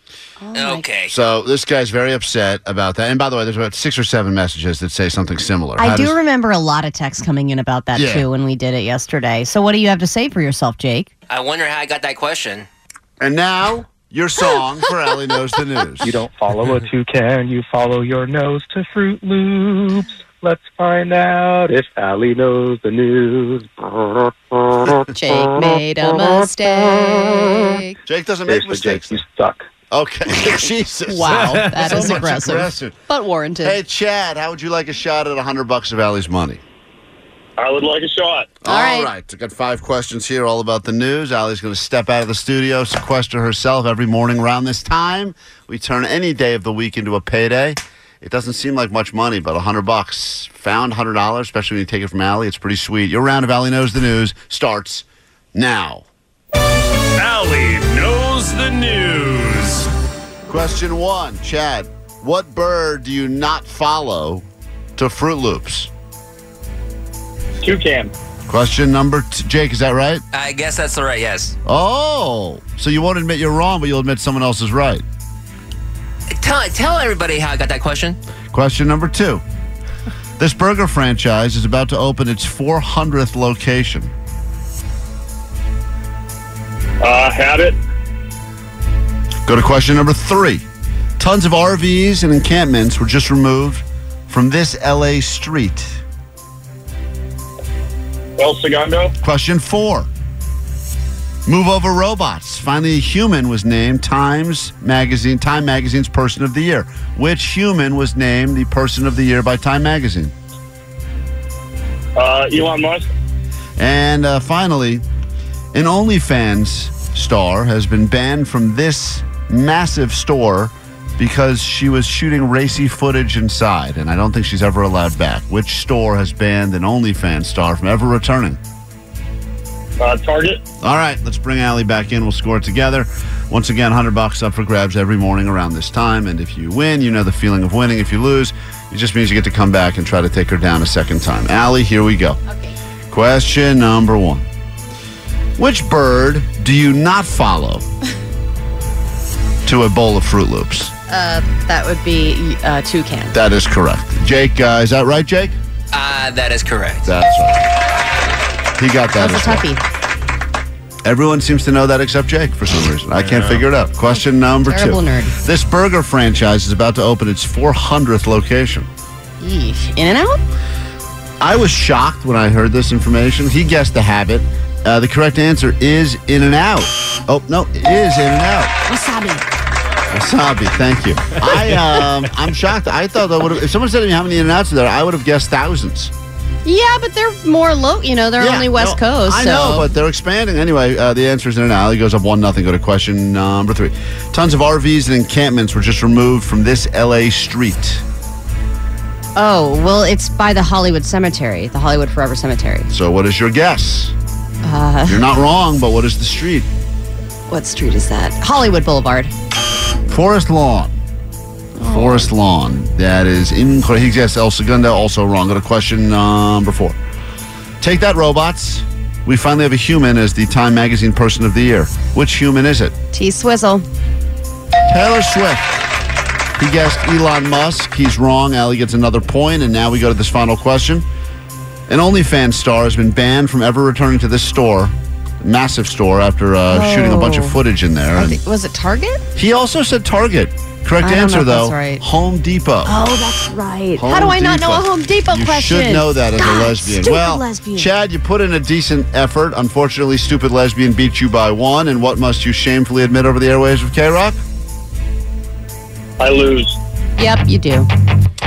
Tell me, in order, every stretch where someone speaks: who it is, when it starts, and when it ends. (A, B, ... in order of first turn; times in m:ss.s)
0:00.4-0:00.9 A
0:00.5-0:01.1 B
0:01.1-0:06.2 C
0:05.8-0:11.1 A
0:08.0-0:08.3 C
0:11.3-0:12.7 B
0:13.2-0:16.2 C
0:16.0-0:24.3 D
0:25.0-0:28.0 A
0:28.1-0:29.2 C
0:28.5-0:29.7 D
0:29.9-0:33.0 C
0:30.4-0:33.8 A
0:31.3-0:32.2 E
0:33.6-0:36.6 C
0:37.6-0:38.5 F
0:38.6-0:56.0 C
0:38.6-0:39.1 A
0:57.2-0:59.9 E
1:00.5-1:04.4 C
1:05.0-1:05.9 C
1:07.6-1:08.1 F
1:08.5-1:10.2 C
1:10.3-1:11.6 B
1:11.7-1:15.0 C
1:16.3-1:18.2 B
1:18.5-1:19.4 C
1:20.4-1:24.1 C
1:27.0-1:27.8 F
1:29.5-1:30.6 C
1:31.2-1:36.0 C
1:38.4-1:39.1 F
1:39.2-1:40.1 C
1:41.5-1:50.3 C
1:52.2-1:53.1 F
1:53.8-1:55.0 C
1:55.7-2:08.6 C
2:10.0-2:10.6 F
2:10.8-2:22.4 C
2:22.5-2:22.8 A
2:23.1-2:24.5 C
2:25.6-2:27.9 C
2:29.7-2:30.9 C
2:31.1-2:33.4 A
2:33.3-2:35.6 C
2:35.9-2:37.1 B
2:37.0-2:37.7 C
2:38.8-2:39.6 C
2:39.2-2:39.8 A
2:41.0-2:48.9 C
2:43.2-2:43.6 E
2:44.7-2:45.4 A
2:49.4-2:50.4 A
2:51.4-2:58.8 C
2:58.9-2:59.4 A
3:00.1-3:06.1 C
3:06.6-3:09.9 A
3:08.4-3:18.0 C
3:19.4-3:22.9 A
3:22.9-3:24.1 C
3:24.6-3:25.2 A
3:25.1-3:26.7 C
3:27.5-3:29.3 A
3:30.1-3:31.0 C
3:31.8-3:32.3 A
3:31.9-3:37.0 C
3:37.8-3:43.0 C
3:43.1-3:43.8 A
3:44.9-3:45.7 C
3:46.6-3:51.0 C
3:51.9-3:58.4 C
3:56.7-3:57.6 A
3:58.1-3:59.3 A
3:59.4-4:03.0 C
4:01.0-4:02.0 A
4:02.8-4:07.9 A
4:04.0-4:14.4 C
4:16.2-4:16.8 F
4:17.2-4:17.9 A